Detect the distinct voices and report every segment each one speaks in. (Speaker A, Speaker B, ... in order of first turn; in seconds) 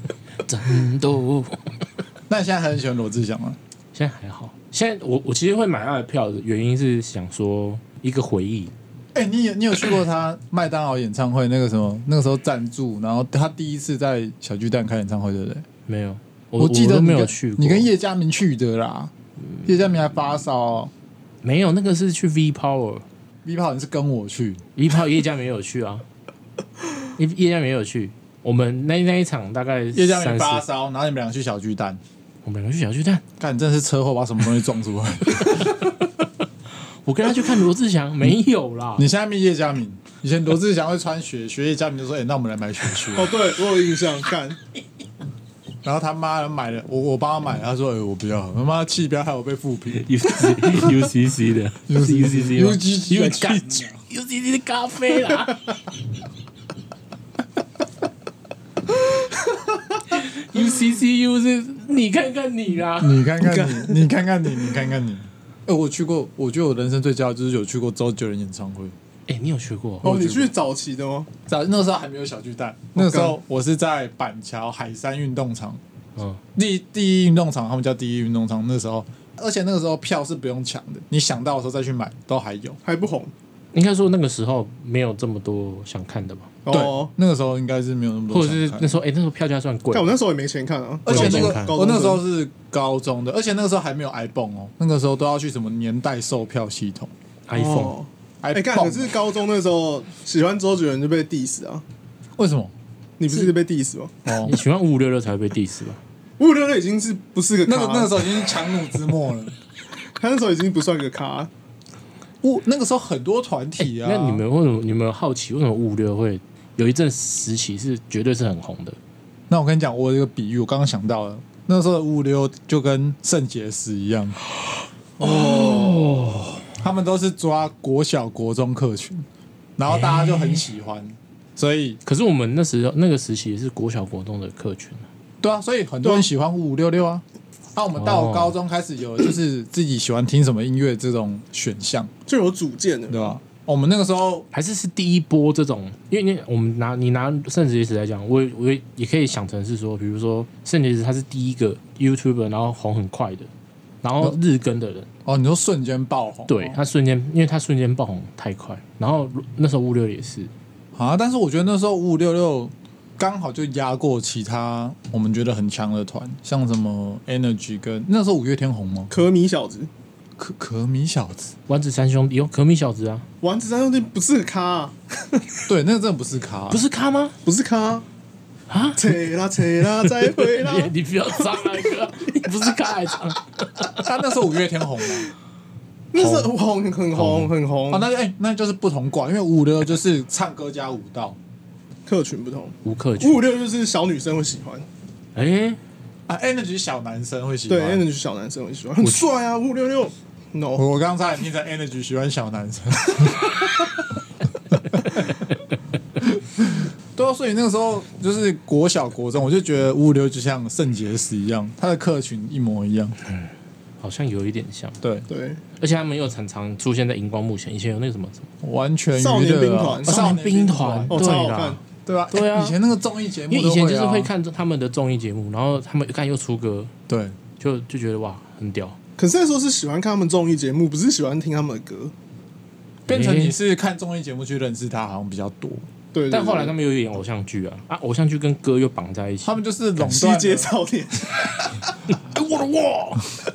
Speaker A: 0.4-1.8, 3.9-8.7, 15.9-17.9, 21.4-23.1, 24.8-26.1, 27.2-30.6, 32.4-33.2, 35.4-35.7, 37.0-39.1, 49.9-55.6, 60.1-63.3, 69.3-70.5, 76.2-76.4, 83.7-86.6, 88.3-90.2, 91.1-91.8, 97.5-98.0, 104.4-106.0, 113.8-119.0, 125.2-126.7, 129.9-130.6, 132.1-135.1, 138.0-138.6, 144.5-153.5, 154.0-155.1, 156.5-160.5, 171.7-173.3, 176.7-177.3, 178.7-179.2, 179.9-184.1, 187.2-187.5, 192.8-193.4, 195.4-195.8, 213.3-215.0, 215.8-218.5, 220.1-222.8, 223.5-226.9, 227.6-229.0, 233.1-233.6, 236.3-239.6, 242.1-243.2
Speaker B: 2.3-3.6, 9.1-15.7, 16.6-19.1, 19.7-20.9, 23.4-24.6, 29.9-32.0, 33.4-36.0, 39.0-43.4, 45.8-51.1, 51.9-54.0, 63.0-69.0, 71.5-75.8, 76.5-82.8, 86.7-89.0, 91.1-97.1, 98.4-99.2, 102.4-102.7, 104.3-104.6, 107.7-109.5, 112.4-114.4, 119.5-124.4, 126.8-129.3, 129.8-132.0, 135.4-137.2, 137.8-142.1, 143.1-144.5, 155.2-156.8, 160.9-169.1, 170.4-171.5, 175.7-176.8, 183.9-185.3, 186.2-186.5, 187.9-191.4, 196.3-198.1, 200.8-204.2, 204.7-205.3, 206.2-213.2, 215.0-215.3, 218.6-221.3, 222.1-224.3, 227.1-227.4, 233.1-235.9, 239.4-240.7
Speaker C: 43.1-44.6, 63.4-64.1, 70.0-71.3, 73.0-73.3, 82.8-83.3, 86.7-87.1, 89.9-92.2, 97.5-101.8, 103.2-104.1, 106.4-108.4, 110.2-111.5, 125.2-126.1, 142.3-143.4, 169.1-169.9, 173.4-175.4, 177.4-178.1, 179.0-181.7, 186.1-188.1, 192.1-194.9, 197.7-200.8, 215.3-215.6, 219.2-220.3, 221.1-221.8, 229.2-232.1, 236.1-236.7, 240.0-241.6